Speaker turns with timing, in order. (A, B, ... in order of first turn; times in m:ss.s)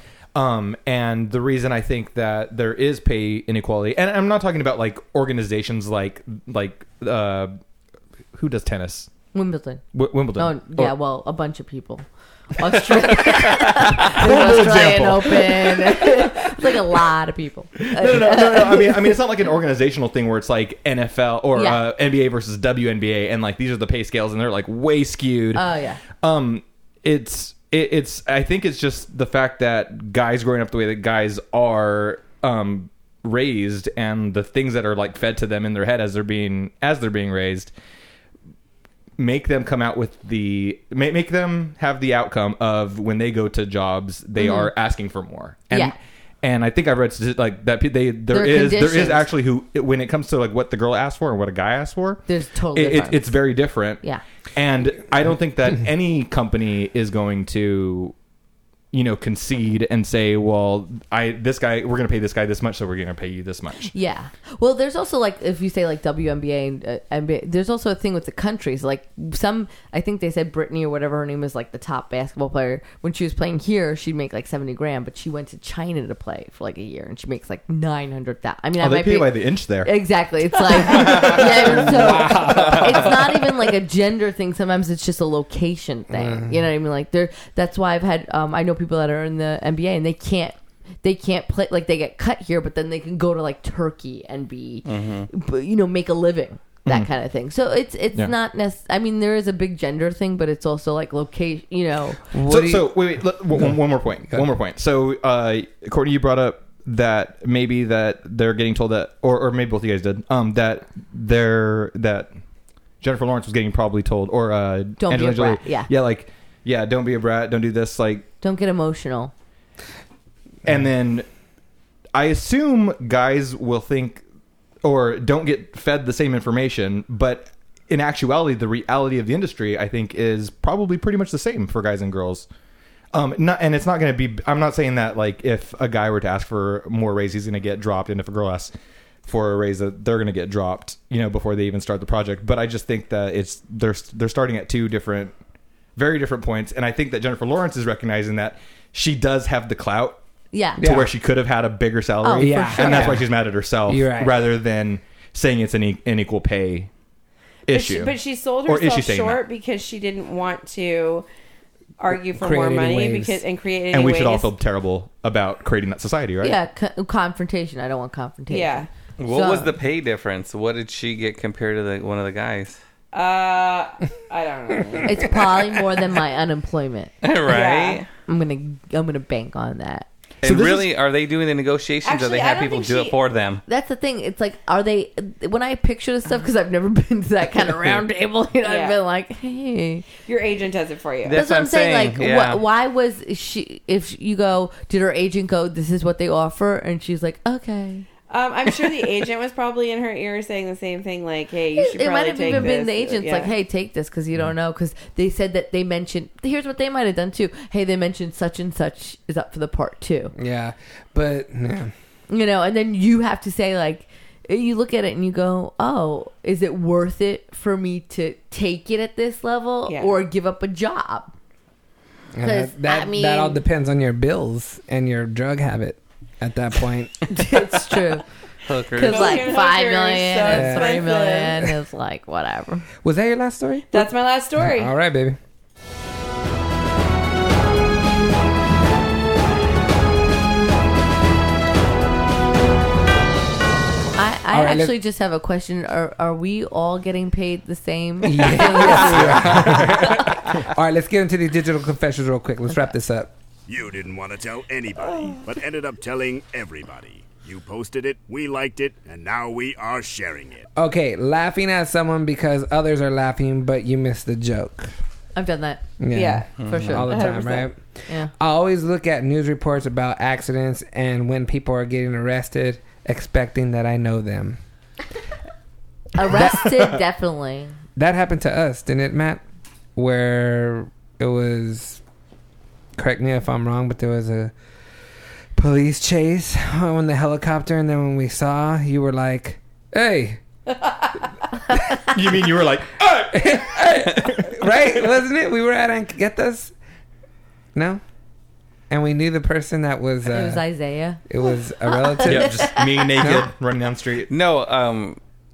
0:00.4-0:07.6 A
0:08.3-0:09.1 A
0:09.3-0:09.8 B
0:09.9-0:10.9 A
0:10.4-0:12.0 B
0:12.6-0:19.2 B
0:12.6-0:16.5 A
0:17.8-0:25.6 A
0:21.6-0:21.8 B
0:25.6-0:26.0 B
0:26.2-0:37.7 A
0:39.2-0:52.2 A
0:44.4-0:44.7 B
0:45.7-0:46.0 B
0:48.3-0:49.3 B
0:52.3-0:53.4 B
0:52.7-0:58.2 A
0:58.9-1:03.9 A
1:03.9-1:42.3 B
1:18.8-1:19.9 A
1:21.1-1:23.4 C
1:21.2-1:21.9 A
1:26.1-1:26.6 C
1:34.9-1:35.3 D
1:42.3-1:43.8 C
1:42.4-1:52.4 A
1:53.0-1:58.3 A
1:55.0-1:55.9 B
1:58.4-1:59.3 B
2:00.6-2:01.3 A
2:02.2-2:04.2 A
2:04.8-2:12.5 A
2:13.1-2:18.7 A
2:19.2-2:25.3 A
2:26.0-2:30.2 A
2:30.5-2:30.8 B
2:30.8-2:36.9 A
2:30.8-2:31.1 C
2:32.2-2:33.1 B
2:32.4-2:33.3 C
2:33.9-2:34.4 C
2:37.7-2:39.4 A
2:37.7-2:41.3 E
2:42.0-2:44.5 E
2:42.4-2:43.4 C
2:43.9-2:46.6 A
2:46.4-2:49.7 B
2:48.5-2:48.9 E
2:49.2-2:52.8 D
2:53.1-2:55.4 E
2:55.0-2:57.1 B
2:57.2-2:58.1 D
2:57.5-2:58.1 E
2:58.3-3:00.1 B
3:00.4-3:03.6 D
3:00.4-3:00.9 A
3:02.0-3:03.2 E
3:03.7-3:10.1 B
3:08.6-3:09.0 E
3:10.3-3:11.4 E
3:11.2-3:12.6 D
3:11.3-3:18.1 B
3:18.3-3:23.5 E
3:21.8-3:30.4 B
3:30.4-3:31.9 C
3:32.3-3:41.4 B
3:39.9-3:40.2 E
3:42.4-3:48.0 C
3:42.4-3:43.6 B
3:47.3-3:48.2 B
3:48.7-3:49.6 D
3:48.9-3:52.9 B
3:49.0-3:51.7 E
3:50.5-3:51.0 C
3:53.0-3:55.4 C
3:53.9-3:54.9 E
4:04.2-4:10.3 B
4:04.5-4:05.0 C
4:08.2-4:13.3 C
4:13.7-4:20.7 F
4:20.8-4:24.9 C
4:25.4-4:25.8 B
4:26.0-4:27.8 C
4:26.1-4:27.7 E
4:26.6-4:27.0 D
4:26.6-4:27.2 B
4:28.3-4:34.6 C
4:36.2-4:37.8 B
4:36.3-4:36.8 C
4:38.0-4:39.4 C
4:40.0-4:42.0 C
4:43.0-4:44.5 C
4:45.6-4:50.4 C
4:52.0-4:53.8 A
4:53.3-4:56.7 C
4:57.8-4:58.0 C
4:58.9-5:00.6 C
5:00.3-5:01.2 B
5:01.3-5:03.5 C
5:01.9-5:02.9 B
5:02.2-5:04.3 A
5:04.3-5:05.2 D